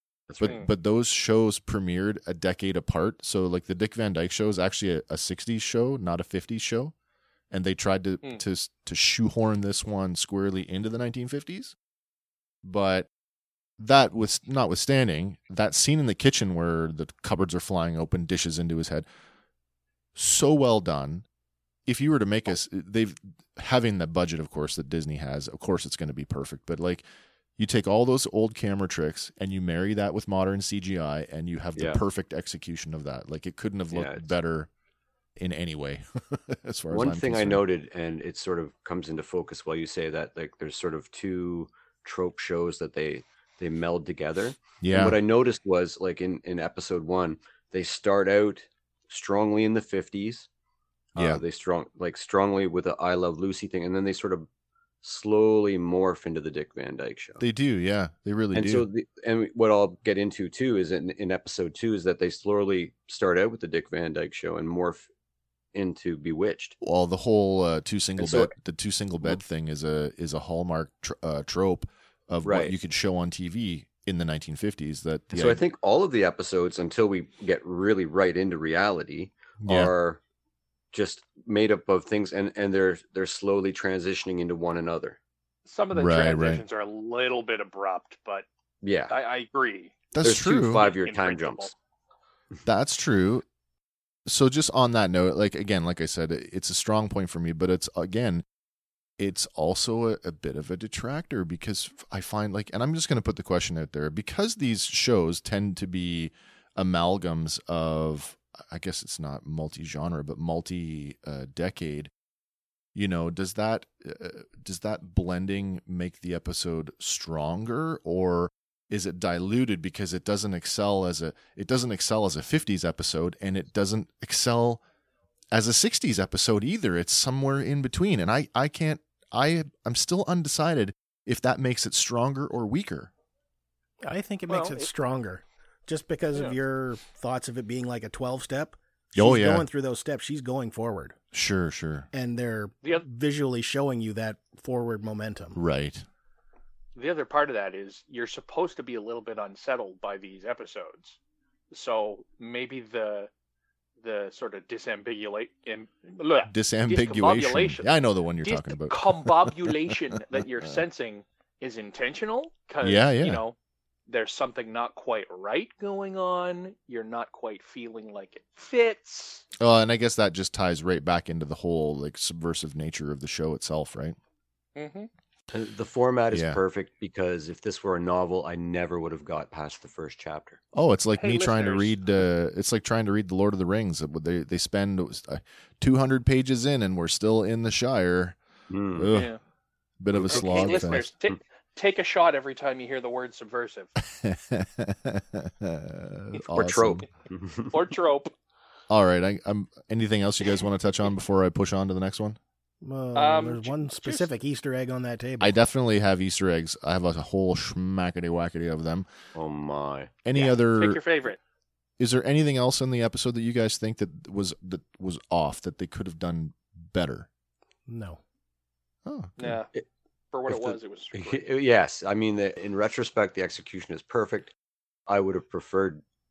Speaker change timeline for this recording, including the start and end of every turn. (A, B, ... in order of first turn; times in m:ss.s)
0:00.3-0:00.6 A
0:00.4-0:06.9 B
0:00.4-0:00.7 C
0:07.5-0:11.8 B
0:12.6-0:13.1 B
0:13.8-0:19.0 B
0:20.1-0:21.2 B
0:21.9-0:27.0 B
0:27.6-0:34.7 B
0:33.9-0:34.3 A
0:35.4-0:37.6 B
0:36.9-0:50.5 A
0:44.8-0:45.2 B
0:51.1-0:54.5 A
0:51.2-0:51.4 B
0:55.0-0:57.4 A
0:57.4-0:58.8 B
0:58.5-1:05.1 A
1:05.7-1:06.7 A
1:06.8-1:15.6 B
1:08.2-1:08.5 A
1:12.4-1:12.7 A
1:15.3-1:20.2 A
1:19.6-1:19.9 B
1:20.9-1:25.2 A
1:25.6-1:28.4 C
1:25.9-1:26.6 B
1:28.8-1:29.1 A
1:29.1-1:29.9 C
1:30.1-1:30.8 B
1:30.2-1:31.7 A
1:30.7-1:31.7 C
1:32.6-1:33.4 B
1:34.2-1:38.4 B
1:39.2-1:52.1 B
1:52.9-2:04.8 B
2:05.5-2:13.1 B
2:14.0-2:21.2 D
2:14.5-2:14.9 C
2:19.1-2:19.7 B
2:21.3-2:22.1 B
2:22.1-2:25.6 D
2:25.5-2:26.0 B
2:27.0-2:31.2 C
2:31.7-2:33.3 C
2:34.0-2:43.6 C
2:36.5-2:40.8 B
2:42.8-2:43.4 B
2:44.1-2:49.4 C
2:49.6-2:54.2 B
2:54.8-2:55.1 C
2:55.5-3:00.6 A
2:56.3-2:56.6 B
3:00.7-3:08.4 B
3:01.2-3:02.0 C
3:08.7-3:09.1 A
3:08.9-3:09.3 B
3:09.1-3:09.4 C
3:10.0-3:11.0 B
3:10.1-3:11.4 A
3:10.3-3:13.9 C
3:14.0-3:17.0 B
3:16.5-3:17.8 A
3:17.7-3:18.3 C
3:18.9-3:22.4 B
3:22.8-3:25.5 D
3:23.1-3:24.3 C
3:25.4-3:29.1 B
3:29.3-3:30.1 A
3:30.2-3:31.0 B
3:30.3-3:31.4 C
3:32.0-3:37.3 B
3:37.9-3:38.2 D
3:39.0-3:39.6 B
3:39.4-3:39.7 C
3:40.3-3:41.4 C
3:40.5-3:44.5 A
3:45.1-3:46.0 A